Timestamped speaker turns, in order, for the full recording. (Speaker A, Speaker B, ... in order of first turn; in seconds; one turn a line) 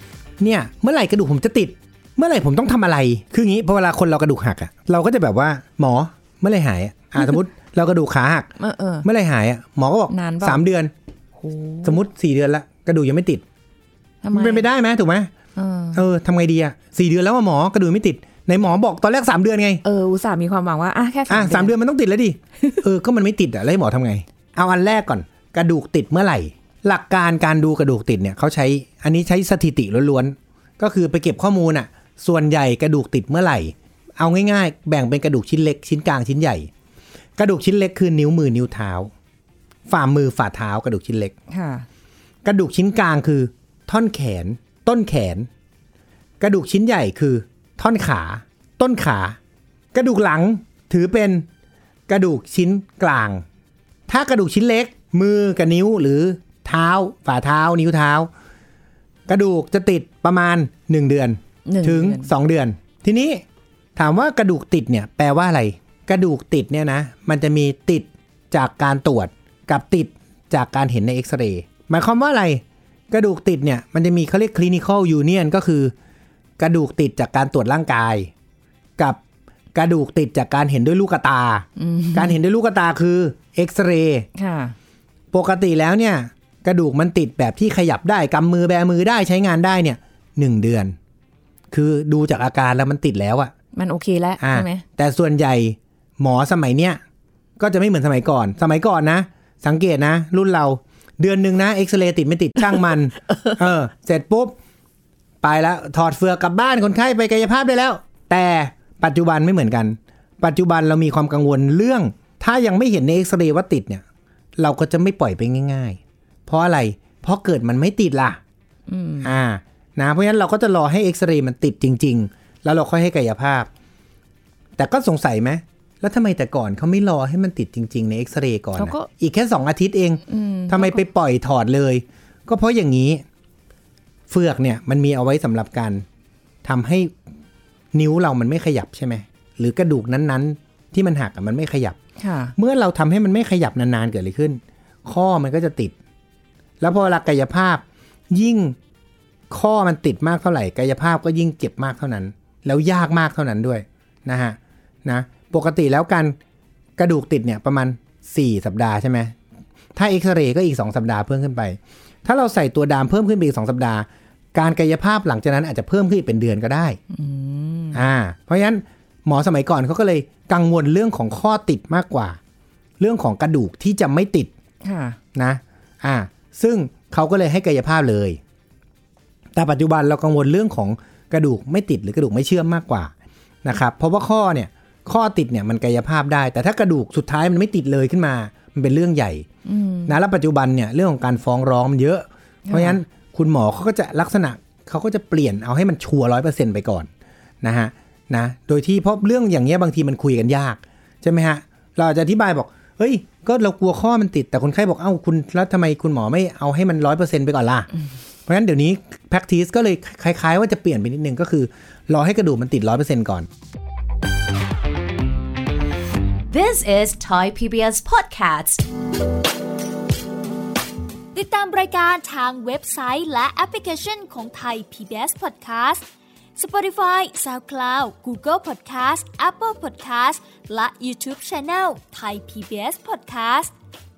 Speaker A: 0.4-10.9
Speaker B: 8.6-9.1
Speaker B: 10.1-10.6
Speaker B: 11.4-12.0
Speaker A: 11.8-13.4
Speaker B: 14.2-14.7
Speaker A: 14.3-15.3
Speaker B: 15.6-16.0
Speaker A: 15.9-19.8
Speaker B: 19.8-21.7
Speaker A: 21.3-36.7
Speaker A: 37.4-39.1
Speaker A: 39.9-41.3
Speaker B: 41.5-41.9
Speaker A: 42.4-45.5
Speaker A: 46.4-49.4
Speaker A: 49.9-51.5
Speaker A: 52.1-53.4
Speaker A: 54.1-58.3
Speaker A: 59.3-63.4
Speaker B: 61.6-62.3
Speaker A: 64.0-75.9
Speaker A: 76.6-78.3
Speaker A: 79.7-84.3
Speaker B: 81.8-82.4
Speaker B: 84.3-84.8
Speaker A: 85.3-91.0
Speaker A: 91.7-93.5
Speaker B: 93.7-94.8
Speaker A: 94.4-97.0
Speaker A: 97.6-104.5
Speaker A: 105.4-114.0
Speaker A: 114.6-118.4
Speaker B: 118.9-119.3
Speaker A: 119.2-123.7
Speaker A: 124.8-133.2
Speaker B: 128.8-129.1
Speaker B: 130.3-131.0
Speaker A: 134.3-136.0
Speaker A: 136.6-137.2
Speaker A: 137.9-142.0
Speaker B: 142.2-142.5
Speaker A: 142.6-145.9
Speaker A: 146.8-148.8
Speaker A: 149.5-156.4
Speaker A: 157.0-159.3
Speaker A: 159.9-167.0
Speaker B: 167.1-168.0
Speaker A: 167.9-172.4
Speaker A: 173.0-174.5
Speaker B: 174.8-175.2
Speaker A: 175.3-178.4
Speaker A: 179.6-183.1
Speaker A: 183.6-189.4
Speaker B: 189.6-190.2
Speaker A: 190.1-197.1
Speaker B: 192.7-193.0
Speaker A: 197.6-207.9
Speaker A: 208.5-213.5
Speaker C: 216.5-218.8
Speaker D: 221.3-233.7